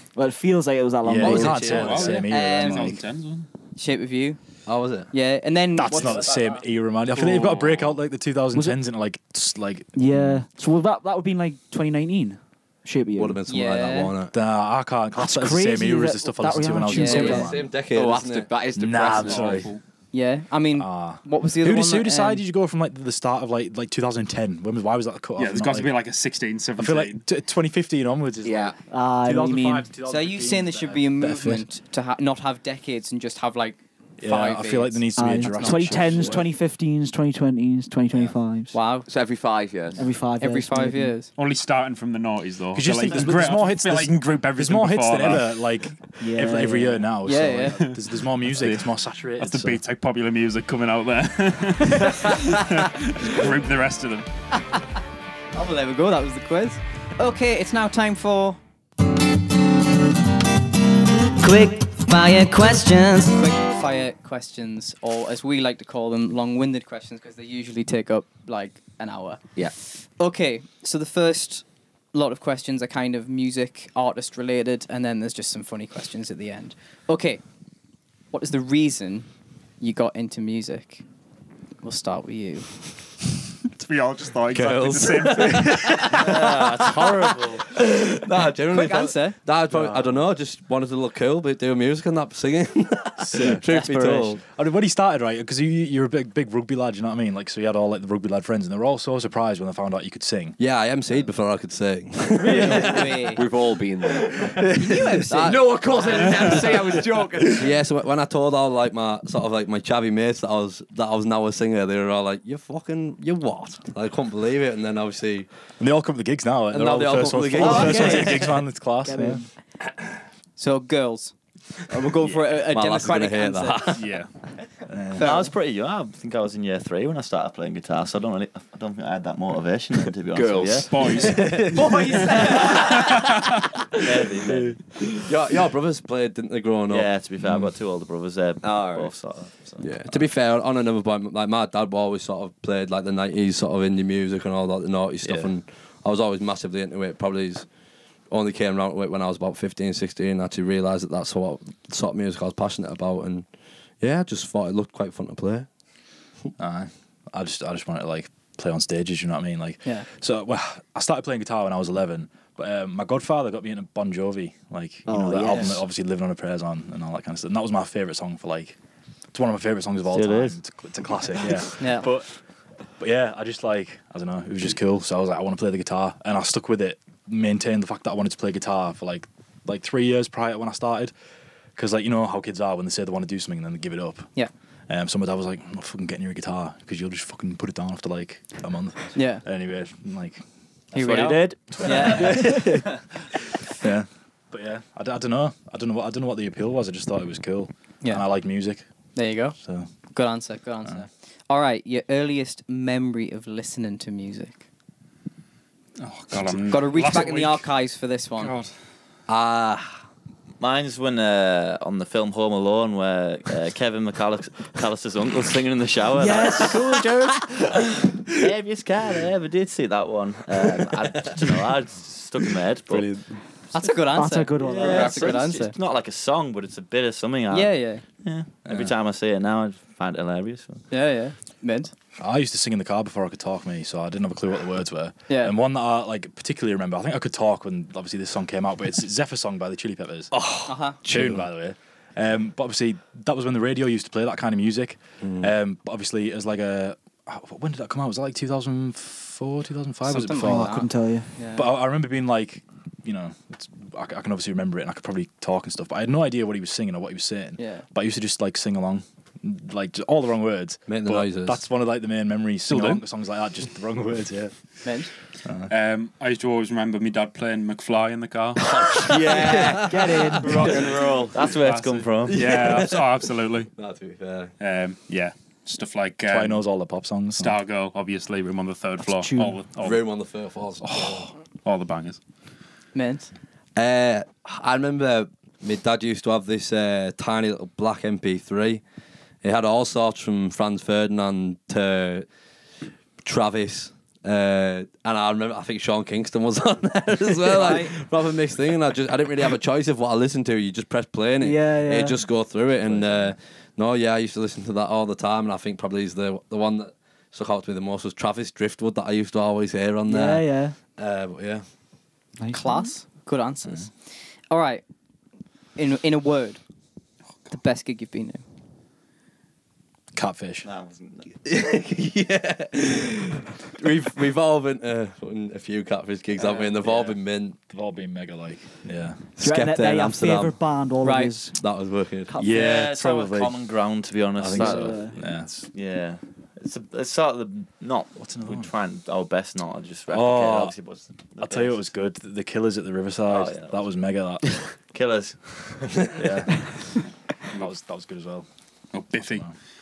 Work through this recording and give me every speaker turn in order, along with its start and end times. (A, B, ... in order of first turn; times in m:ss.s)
0:00.2-0:02.0 A
0:01.0-0:03.0 B
0:01.2-0:02.0 C
0:01.4-0:03.5 D
0:02.3-0:02.9 E
0:03.8-0:04.6 E
0:04.6-0:05.1 C
0:05.1-0:06.3 E
0:05.8-0:10.4 B
0:07.1-0:08.0 D
0:08.5-0:08.8 A
0:09.9-0:13.4 A
0:13.2-0:14.3 C
0:13.5-0:14.1 E
0:14.3-0:17.7 B
0:15.2-0:17.6 A
0:16.9-0:17.4 E
0:17.0-0:18.5 C
0:17.8-0:19.7 F
0:18.7-0:19.7 B
0:19.1-0:19.8 D
0:20.1-0:22.4 E
0:20.7-0:25.9 B
0:25.4-0:27.2 D
0:26.8-0:31.7 B
0:28.4-0:28.8 F
0:28.9-0:29.9 A
0:30.1-0:36.4 E
0:34.2-0:36.5 B
0:35.1-0:38.8 A
0:38.7-0:39.1 E
0:39.0-0:40.0 F
0:40.0-0:41.2 A
0:40.4-0:41.3 E
0:41.3-0:45.6 D
0:42.7-0:49.8 B
0:46.2-0:47.1 A
0:47.2-0:47.8 E
0:47.8-0:54.3 D
0:55.5-0:58.6 E
1:01.4-1:17.4 E
1:18.3-1:19.3 E
1:19.8-1:21.0 E
1:21.8-1:22.8 E
1:23.7-1:26.2 D
1:24.5-1:34.4 C
1:26.1-1:27.7 G
1:28.7-1:29.4 E
1:29.7-1:30.2 B
1:33.2-1:33.6 B
1:33.7-1:34.3 G
1:34.4-1:40.6 B
1:40.6-1:43.3 C
1:42.4-1:43.0 A
1:42.4-1:43.4 E
1:42.8-1:44.6 F
1:44.1-1:55.5 C
1:44.7-1:46.6 E
1:45.4-1:47.7 F
1:46.2-1:46.6 D
1:55.8-1:59.4 B
1:56.7-1:58.6 C
1:57.6-1:59.4 A
1:57.6-1:58.2 E
2:00.6-2:01.3 E
2:01.8-2:04.0 E
2:02.7-2:04.1 C
2:03.9-2:04.3 D
2:04.9-2:05.3 B
2:05.1-2:05.5 E
2:05.2-2:11.4 G
2:10.3-2:11.2 F
2:10.9-2:13.6 D
2:11.2-2:11.8 C
2:11.7-2:13.1 E
2:13.9-2:14.8 G
2:15.1-2:17.6 C
2:16.9-2:19.9 G
2:18.6-2:19.1 F
2:19.8-2:27.6 C
2:28.3-2:33.4 C
2:34.0-2:35.7 C
2:36.6-2:48.8 B
2:45.1-2:45.8 A
2:49.3-2:52.3 B
2:50.1-2:50.6 G
2:51.8-2:52.0 E
2:53.0-3:01.1 B
3:01.8-3:04.3 B
3:04.9-3:13.0 B
3:09.1-3:09.4 E
3:10.9-3:12.6 E
3:12.2-3:12.7 A
3:13.6-3:18.8 B
3:19.1-3:19.6 E
3:19.6-3:19.9 B
3:20.1-3:24.6 E
3:26.0-3:27.7 D
3:26.7-3:28.5 E
3:28.4-3:28.7 D
3:29.3-3:30.0 C
3:30.6-3:36.9 G
3:36.2-3:37.4 A
3:38.3-3:43.2 G
3:41.4-3:41.6 C
3:42.9-3:43.2 C
3:43.7-3:45.8 E
3:44.1-3:45.2 A
3:44.6-3:50.8 G
3:44.8-3:45.6 F
3:47.5-3:48.0 E
3:48.6-3:48.9 B
3:50.9-3:51.9 E
3:52.2-4:10.9 B
3:55.3-3:55.5 E
4:00.4-4:01.5 C
4:00.6-4:01.0 E
4:05.2-4:05.5 C
4:10.0-4:11.7 E
4:10.4-4:11.3 A
4:11.5-4:24.6 B
4:17.6-4:17.8 E
4:20.9-4:21.6 C
4:24.8-4:25.1 E
4:25.4-4:25.7 B
4:25.7-4:28.7 D
4:28.6-4:30.7 C
4:28.9-4:30.6 F
4:29.3-4:29.7 G
4:29.8-4:30.6 A
4:30.4-4:32.8 G
4:30.5-4:33.7 D
4:32.3-4:33.1 C
4:33.8-4:34.5 C
4:34.6-4:36.6 D
4:36.3-4:37.6 B
4:37.4-4:40.0 D
4:39.0-4:39.6 A
4:39.8-4:41.3 C
4:40.9-4:42.2 D
4:42.9-4:43.3 E
4:43.7-4:48.8 C
4:49.4-4:52.2 C
4:53.2-5:11.6 C
4:57.5-4:57.9 E
5:01.4-5:02.2 A
5:02.8-5:03.3 B
5:10.1-5:10.7 A
5:12.4-5:12.9 A
5:12.5-5:14.8 E
5:15.8-5:16.6 E
5:17.5-5:18.4 E
5:20.1-5:20.7 B
5:20.6-5:21.3 G
5:21.4-5:27.6 C
5:26.4-5:27.2 G
5:27.7-5:29.2 B
5:29.4-5:30.6 C
5:29.4-5:31.6 A
5:31.0-5:31.3 E
5:31.6-5:32.4 C
5:32.3-5:32.6 A
5:32.4-5:33.5 B
5:32.4-5:41.9 G
5:34.4-5:35.6 B
5:34.6-5:35.2 A
5:38.2-5:38.7 B
5:40.1-5:40.7 B
5:41.4-5:44.6 B
5:43.3-5:43.8 G
5:44.9-5:46.5 G
5:46.1-5:46.6 B
5:47.5-5:48.4 B
5:48.9-5:49.4 D
5:49.1-5:49.5 B